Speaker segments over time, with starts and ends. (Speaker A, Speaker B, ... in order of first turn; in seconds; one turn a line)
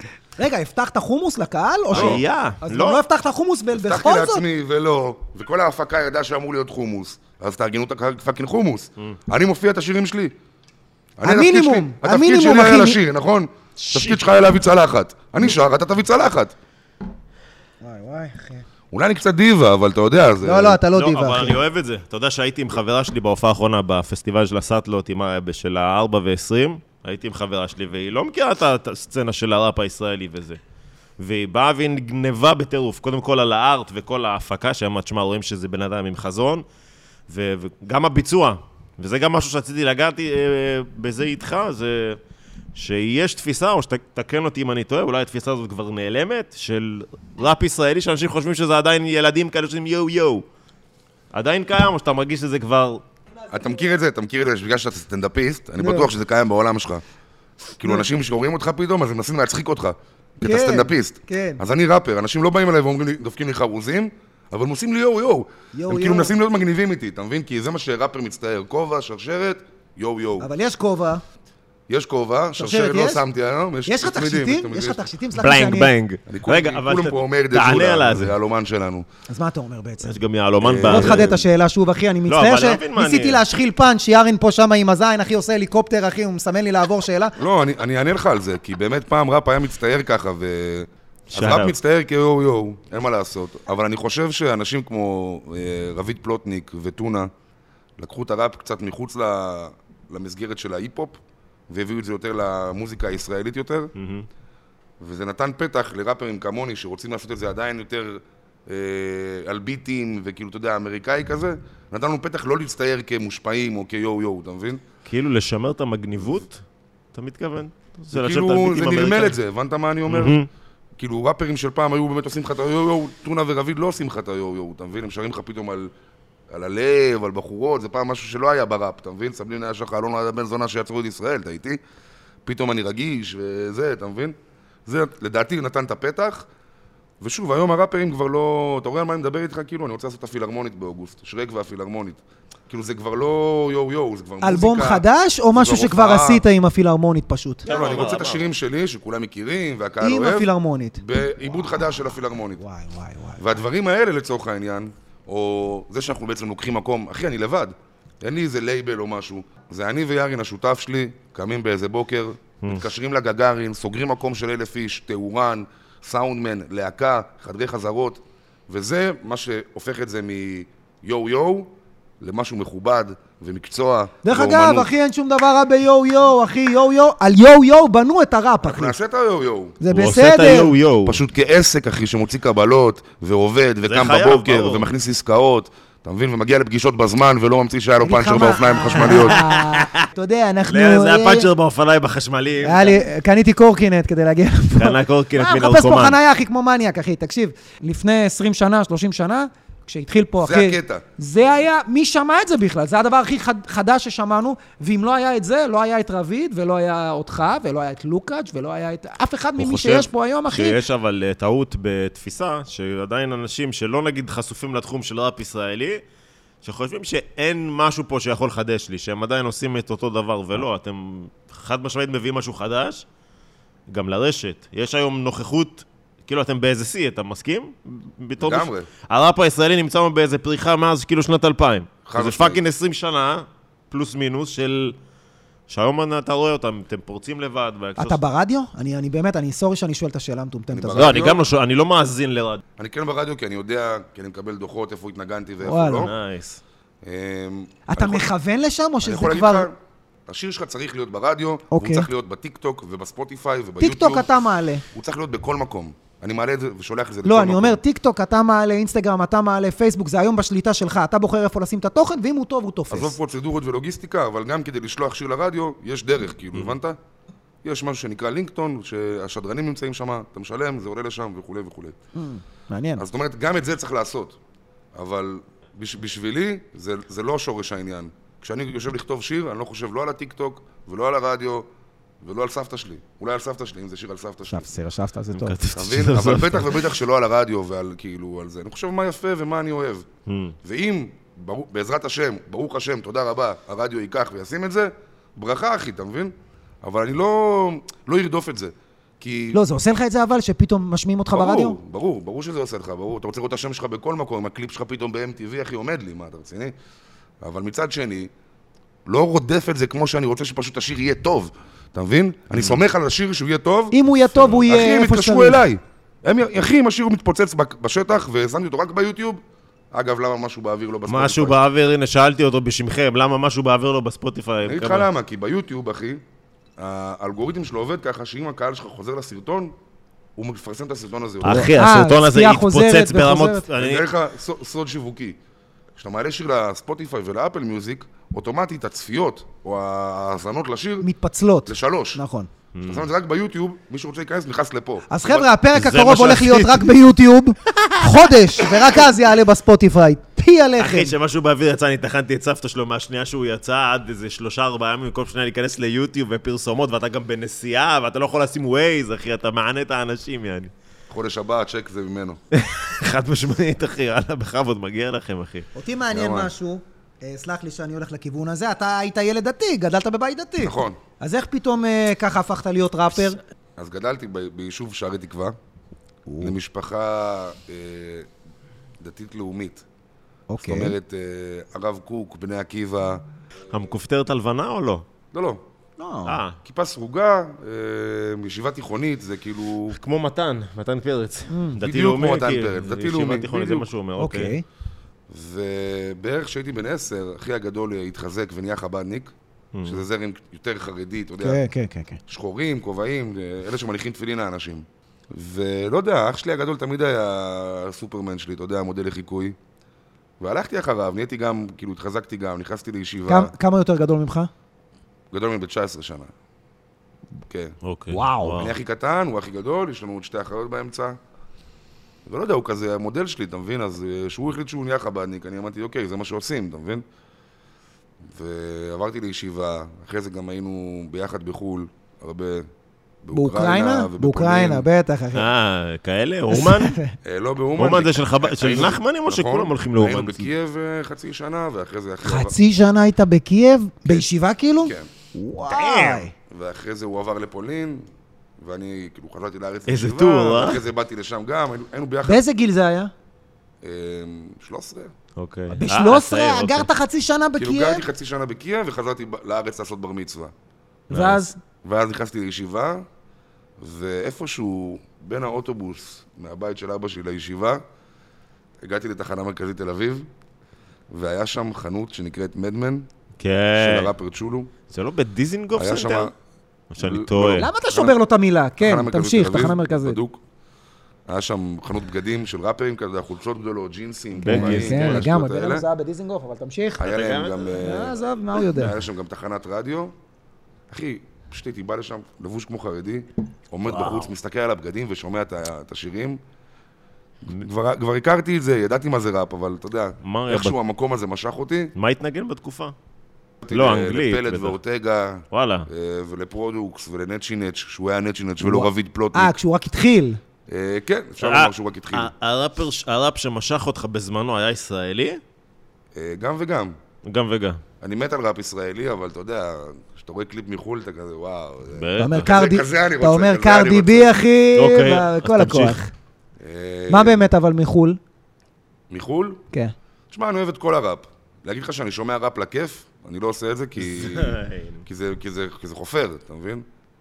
Speaker A: 0.4-4.4
Speaker B: 1.9-3.0
Speaker C: 1.9-2.2
Speaker C: 3.7-10.3
Speaker C: 11.2-16.5
Speaker A: 11.2-13.0
Speaker A: 17.8-18.6
Speaker C: 18.9-20.8
Speaker A: 20.4-21.6
Speaker B: 20.9-30.6
Speaker B: 31.2-36.6
Speaker B: 37.3-42.2
Speaker B: 42.7-50.4
Speaker B: 51.3-53.0
Speaker C: 53.5-57.0
Speaker A: 55.8-56.1
Speaker C: 57.8-70.5
Speaker A: 60.4-61.6
Speaker A: 65.7-66.3
Speaker A: 70.4-71.2
Speaker C: 71.9-75.0
Speaker A: 72.6-73.2
Speaker A: 73.8-75.9
Speaker B: 75.4-78.3
Speaker C: 76.3-79.0
Speaker A: 79.3-80.1
Speaker B: 80.0-81.3
Speaker C: 80.6-81.5
Speaker A: 80.8-87.3
Speaker B: 82.3-83.4
Speaker C: 87.4-97.3
Speaker B: 91.3-91.7
Speaker C: 98.0-101.2
Speaker C: 101.7-103.9
Speaker B: 104.0-104.3
Speaker C: 105.0-114.8
Speaker B: 115.0-116.6
Speaker B: 117.1-119.3
Speaker C: 118.1-120.4
Speaker B: 120.1-120.5
Speaker C: 121.0-125.9
Speaker C: 126.5-131.8
Speaker C: 132.4-136.5
Speaker C: 137.2-146.4
Speaker A: 144.4-147.7
Speaker B: 147.6-148.5
Speaker C: 147.7-150.5
Speaker A: 150.0-151.0
Speaker C: 151.0-152.6
Speaker A: 152.6-153.4
Speaker C: 153.4-174.9
Speaker A: 174.2-178.9
Speaker C: 178.6-179.8
Speaker A: 179.8-180.7
Speaker B: 179.9-181.2
Speaker C: 181.0-189.4
Speaker B: 183.8-184.9
Speaker A: 188.0-191.5
Speaker B: 189.0-190.1
Speaker B: 190.7-193.0
Speaker A: 192.6-210.8
Speaker B: 194.8-196.2
Speaker C: 200.4-201.0
Speaker B: 209.6-216.0
Speaker B: 216.6-223.0
Speaker B: 223.9-234.9
Speaker C: 228.4-228.9
Speaker C: 232.1-232.6
Speaker B: 235.7-238.2
Speaker A: 238.0-241.2
Speaker C: 240.7-241.4
Speaker B: 240.9-242.6
Speaker C: 242.8-246.1
Speaker A: 245.6-246.1
Speaker B: 246.0-246.6
Speaker C: 247.0-248.3
Speaker A: 247.9-249.7
Speaker C: 249.0-249.8
Speaker C: 250.3-254.3
Speaker A: 251.7-252.1
Speaker A: 253.8-254.8
Speaker C: 254.9-257.8
Speaker A: 257.2-263.1
Speaker C: 262.9-267.0
Speaker C: 267.6-272.0
Speaker A: 272.1-273.0
Speaker C: 273.0-274.4
Speaker C: 274.9-281.7
Speaker C: 282.2-284.7
Speaker A: 284.5-285.6
Speaker B: 285.3-286.9
Speaker C: 285.7-290.1
Speaker B: 290.3-290.5
Speaker C: 290.6-299.6
Speaker A: 299.5-301.8
Speaker C: 301.3-306.7
Speaker C: 307.4-308.3
Speaker C: 309.1-319.4
Speaker B: 312.5-312.8
Speaker A: 313.9-315.6
Speaker C: 319.9-321.6
Speaker B: 321.1-325.1
Speaker C: 324.6-326.2
Speaker C: 326.8-329.7
Speaker C: 330.4-331.7
Speaker B: 331.4-334.1
Speaker A: 331.4-333.6
Speaker C: 333.8-335.4
Speaker C: 335.9-341.1
Speaker A: 341.0-342.5
Speaker C: 341.6-342.2
Speaker B: 342.7-343.1
Speaker C: 342.9-345.4
Speaker A: 345.1-351.1
Speaker B: 345.7-346.9
Speaker B: 347.7-348.9
Speaker B: 350.8-360.7
Speaker C: 361.1-362.4
Speaker B: 362.5-365.7
Speaker A: 365.7-373.4
Speaker C: 366.1-366.5
Speaker C: 370.6-371.0
Speaker C: 373.8-375.6
Speaker A: 376.3-376.5
Speaker C: 376.4-378.3
Speaker C: 379.0-379.8
Speaker A: 380.5-380.9
Speaker C: 380.6-383.2
Speaker B: 383.7-385.0
Speaker C: 385.3-385.6
Speaker A: 386.0-386.4
Speaker B: 386.2-386.6
Speaker C: 386.6-390.0
Speaker B: 389.9-394.5
Speaker A: 391.5-391.8
Speaker C: 391.8-393.9
Speaker A: 394.2-394.6
Speaker C: 395.3-399.3
Speaker B: 399.7-400.0
Speaker C: 399.8-401.6
Speaker A: 401.4-402.2
Speaker C: 402.3-409.6
Speaker C: 410.4-413.5
Speaker A: 413.3-414.5
Speaker C: 415.3-416.3
Speaker C: 417.5-417.7
Speaker B: 417.8-418.7
Speaker A: 418.1-418.6
Speaker C: 418.5-421.2
Speaker C: 422.2-427.0
Speaker C: 428.2-432.7
Speaker C: 433.2-434.9
Speaker A: 433.3-435.5
Speaker B: 435.3-437.0
Speaker A: 436.5-437.1
Speaker C: 437.2-442.5
Speaker B: 437.8-440.5
Speaker A: 442.2-446.3
Speaker C: 444.8-445.1
Speaker B: 445.7-446.2
Speaker C: 446.5-448.0
Speaker C: 448.6-452.4
Speaker B: 449.9-450.8
Speaker A: 452.2-453.1
Speaker C: 453.8-455.1
Speaker B: 455.4-456.9
Speaker A: 455.7-458.0
Speaker C: 457.6-460.5
Speaker B: 461.1-461.5
Speaker A: 461.1-461.6
Speaker C: 461.8-463.1
Speaker C: 463.8-467.8
Speaker C: 468.8-470.3
Speaker C: 471.1-473.1
Speaker B: 473.4-474.1
Speaker C: 473.8-474.7
Speaker B: 474.9-476.3
Speaker C: 475.7-476.3
Speaker B: 476.9-477.7
Speaker C: 477.0-478.1
Speaker A: 477.6-480.2
Speaker C: 478.8-480.4
Speaker C: 481.3-485.9
Speaker B: 484.4-485.2
Speaker A: 484.4-487.1
Speaker C: 487.0-490.1
Speaker B: 487.0-487.9
Speaker A: 487.8-488.9
Speaker C: 490.9-496.4
Speaker B: 493.9-494.3
Speaker C: 497.4-501.9
Speaker B: 500.2-500.8
Speaker B: 501.9-502.9
Speaker C: 503.6-509.5
Speaker B: 503.7-504.8
Speaker B: 505.5-505.9
Speaker A: 508.6-510.4
Speaker C: 510.7-512.3
Speaker B: 511.4-515.4
Speaker C: 516.1-517.0
Speaker B: 517.2-517.8
Speaker C: 518.0-524.4
Speaker B: 521.9-522.5
Speaker A: 522.2-526.1
Speaker B: 524.7-526.0
Speaker C: 526.6-527.5
Speaker A: 527.1-528.2
Speaker C: 529.1-529.6
Speaker C: 530.3-536.8
Speaker B: 534.0-535.0